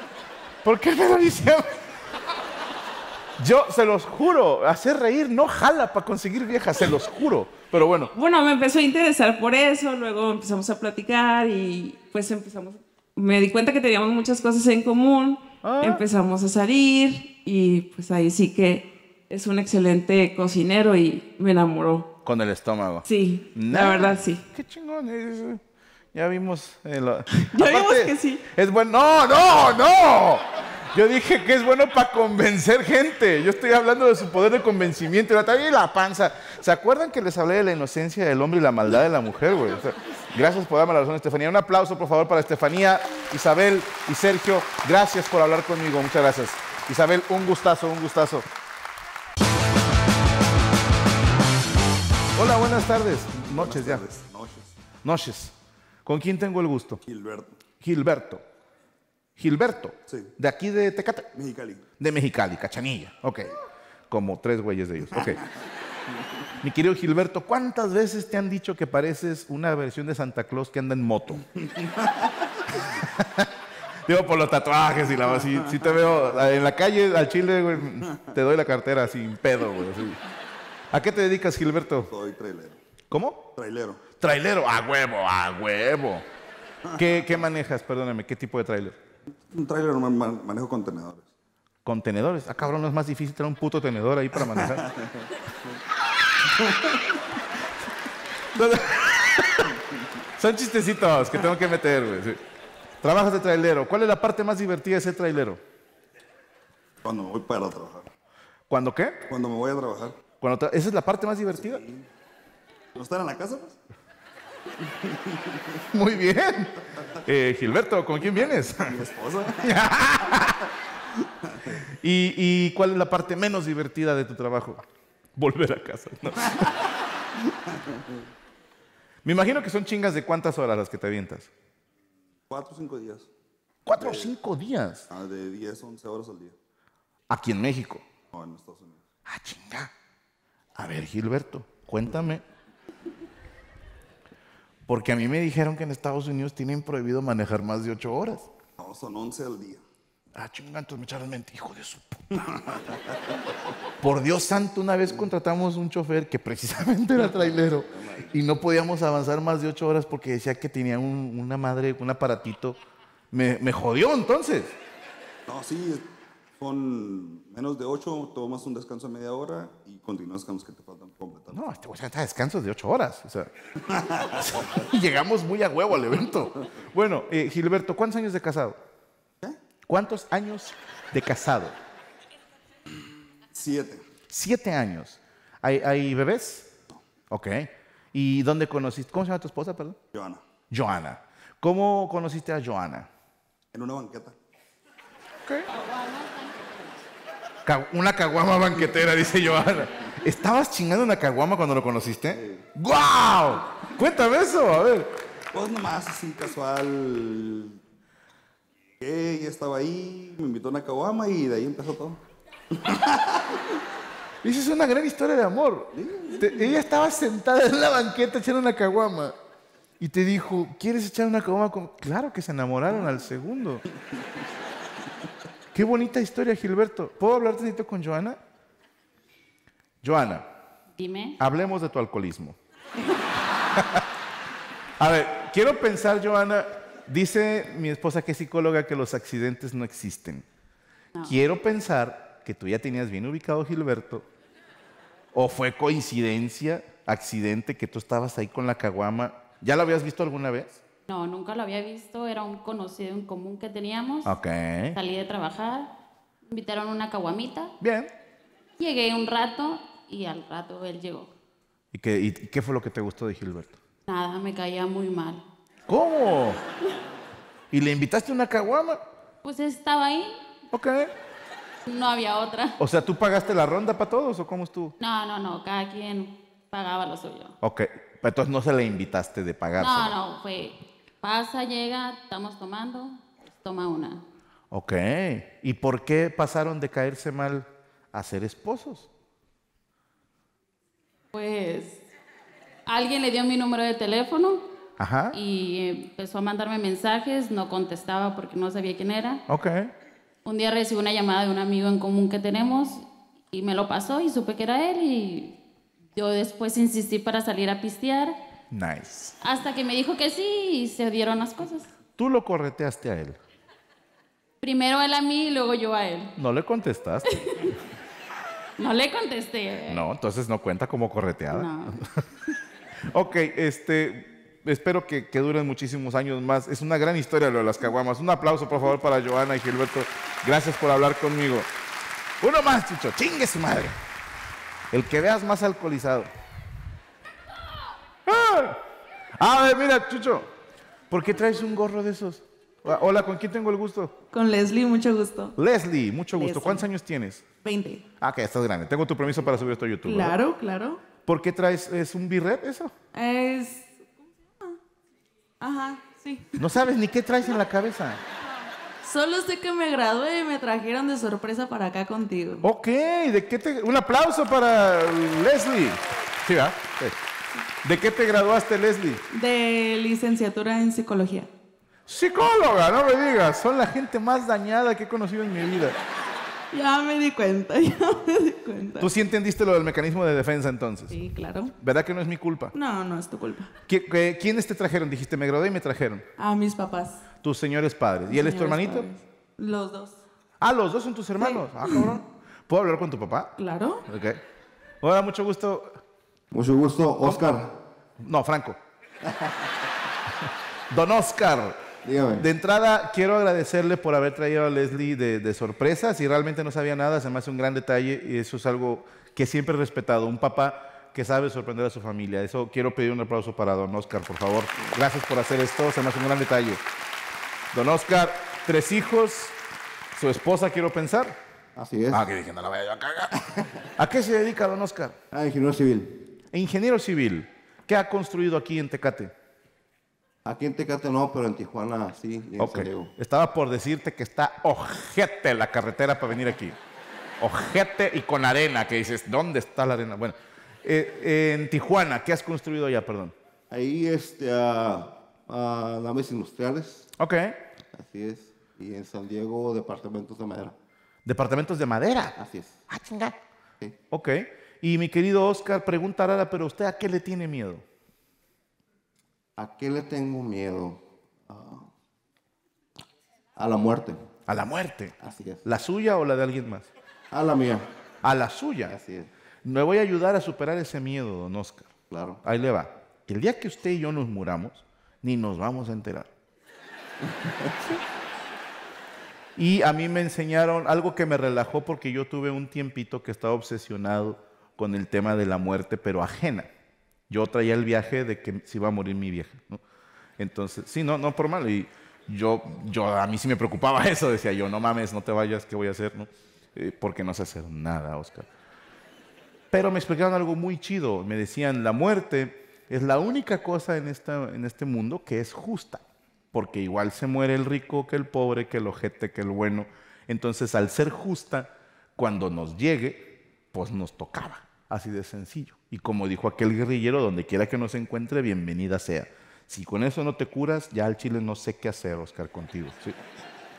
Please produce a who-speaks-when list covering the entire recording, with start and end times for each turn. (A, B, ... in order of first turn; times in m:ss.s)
0:00.6-0:01.7 A
0:03.4-0:08.1 A
0:08.1-0:22.1 B
0:15.6-0:16.0 A
0:22.2-0:25.6 A
0:23.0-0:24.4 B
0:26.1-0:48.5 A
0:27.3-0:28.4 B
0:52.3-0:54.0 A
0:53.4-0:54.7 C
0:55.0-0:55.5 A
0:56.0-0:57.0 A
0:57.1-0:57.6 C
0:57.8-0:58.4 A
0:59.4-1:01.3 A
1:01.3-1:01.8 C
1:02.0-1:03.5 A
1:04.1-1:05.4 A
1:05.1-1:05.4 C
1:06.6-1:11.4 A
1:11.7-1:12.3 C
1:12.8-1:13.5 A
1:14.0-1:20.2 A
1:20.9-1:22.1 A
1:22.1-1:22.8 C
1:23.1-1:23.5 A
1:23.6-1:24.0 C
1:24.2-1:26.2 A
1:26.9-1:27.2 C
1:27.0-1:29.0 A
1:29.5-1:31.3 C
1:31.8-1:34.8 A
1:34.5-1:35.3 C
1:36.7-1:36.9 C
1:38.5-1:39.7 A
1:40.4-1:42.4 A
1:43.0-1:45.6 A
1:47.0-1:48.1 C
1:48.7-1:49.2 A
1:49.3-1:50.2 C
1:50.4-1:51.8 A
1:51.6-1:52.0 C
1:52.9-1:53.8 C
1:54.8-1:55.8 C
1:55.9-1:59.0 A
1:58.2-1:59.7 C
1:59.6-2:00.6 A
2:01.4-2:01.8 C
2:02.0-2:04.8 A
2:05.4-2:06.8 A
2:07.7-2:08.1 C
2:09.2-2:11.5 A
2:12.5-2:13.3 C
2:13.8-2:15.1 A
2:14.0-2:14.3 C
2:15.1-2:16.5 C
2:17.3-2:18.0 A
2:18.3-2:19.0 C
2:19.2-2:19.9 A
2:20.8-2:22.4 A
2:24.9-2:28.5 A
2:28.8-2:29.8 C
2:30.3-2:32.7 A
2:32.4-2:33.2 C
2:34.0-2:42.8 A
2:37.3-2:38.3 C
2:43.3-2:44.7 A
2:45.5-2:46.0 C
2:46.6-2:51.6 C
2:51.5-2:53.5 A
2:53.9-2:54.8 C
2:54.4-2:58.8 A
2:59.9-3:01.8 A
3:03.5-3:04.0 C
3:04.3-3:06.7 A
3:07.3-3:10.0 A
3:10.1-3:10.4 C
3:10.7-3:13.1 A
3:13.7-3:14.3 C
3:17.6-3:25.2 A
3:22.3-3:22.6 C
3:25.5-3:27.8 C
3:29.0-3:32.2 C
3:32.8-3:33.6 C
3:34.4-3:39.3 A
3:35.9-3:36.6 C
3:40.0-3:43.8 A
3:45.7-3:48.4 A
3:50.0-3:50.5 A
3:51.0-3:51.4 D
3:51.4-3:52.6 A
3:55.0-4:00.4 A
4:01.2-4:04.2 A
4:05.3-4:10.8 A
4:11.1-4:14.3 D
4:14.2-4:15.0 A
4:14.9-4:15.9 D
4:16.5-4:17.7 D
4:17.8-4:18.1 A
4:18.8-4:21.3 D
4:21.9-4:23.8 A
4:24.0-4:25.4 D
4:25.9-4:26.6 A
4:27.7-4:29.0 A
4:29.4-4:30.4 D
4:30.7-4:31.1 A
4:31.8-4:32.8 D
4:32.8-4:34.9 A
4:35.0-4:37.5 D
4:37.6-4:40.1 A
4:39.8-4:44.2 D
4:44.7-4:49.1 A
4:51.3-4:52.0 D
4:52.8-4:54.6 D
4:55.0-4:55.4 A
4:55.3-4:59.4 D
4:59.5-4:59.9 A
5:00.4-5:05.6 D
5:06.1-5:08.3 D
5:08.7-5:09.4 A
5:09.4-5:11.9 D
5:12.2-5:13.4 A
5:14.6-5:16.3 D
5:16.4-5:17.2 A
5:17.3-5:17.7 D
5:18.8-5:20.0 D
5:19.9-5:22.0 A
5:21.5-5:22.0 D
5:23.1-5:31.7 A
5:32.4-5:34.0 A
5:34.9-5:36.3 A
5:38.2-5:38.8 A
5:39.4-5:40.5 A
5:41.1-5:44.1 A
5:44.3-5:45.6 E
5:45.6-5:47.4 A
5:46.3-5:46.9 E
5:47.6-5:48.0 E
5:48.2-5:50.3 A
5:50.0-5:51.0 E
5:51.2-5:52.9 A
5:53.1-5:54.0 E
5:55.6-5:56.7 E
5:56.6-5:58.2 A
5:59.0-6:02.7 E
6:02.6-6:07.2 A
6:07.8-6:09.2 A
6:09.3-6:11.5 E
6:12.1-6:16.0 A
6:16.7-6:19.1 E
6:19.0-6:21.1 A
6:21.1-6:21.7 E
6:21.8-6:22.7 A
6:22.7-6:23.7 E
6:23.9-6:26.2 A
6:26.4-6:27.2 E
6:27.4-6:29.0 A
6:28.3-6:30.2 E
6:30.6-6:33.5 A
6:31.4-6:32.2 E
6:33.6-6:34.0 E
6:34.1-6:34.4 A
6:35.0-6:36.0 A
6:36.5-6:37.7 F
6:37.2-6:37.5 A
6:38.2-6:38.8 A
6:40.9-6:41.8 A
6:42.0-6:42.5 F
6:42.4-6:56.8 A
6:57.7-6:59.6 A
7:00.1-7:01.4 A
7:01.8-7:02.2 F
7:02.1-7:05.2 A
7:05.3-7:06.3 F
7:06.5-7:09.3 A
7:10.4-7:13.1 F
7:12.6-7:16.8 A
7:17.4-7:23.3 A
7:23.7-7:27.1 F
7:27.2-7:27.6 A
7:27.9-7:30.7 F
7:31.2-7:32.4 A
7:32.4-7:32.8 F
7:32.9-7:33.4 A
7:34.1-7:37.8 A
7:39.6-7:41.9 F
7:43.6-7:44.3 F
7:44.5-7:46.9 A
7:45.2-7:45.6 F
7:47.3-7:47.9 F
7:48.2-7:49.0 A
7:48.8-7:49.3 F
7:49.6-7:51.9 A
7:52.1-7:52.4 F
7:52.4-7:56.3 A
7:57.3-7:57.7 F
7:59.6-8:06.7 A
8:07.3-8:09.8 A
8:10.4-8:18.5 A
8:19.7-8:43.2 A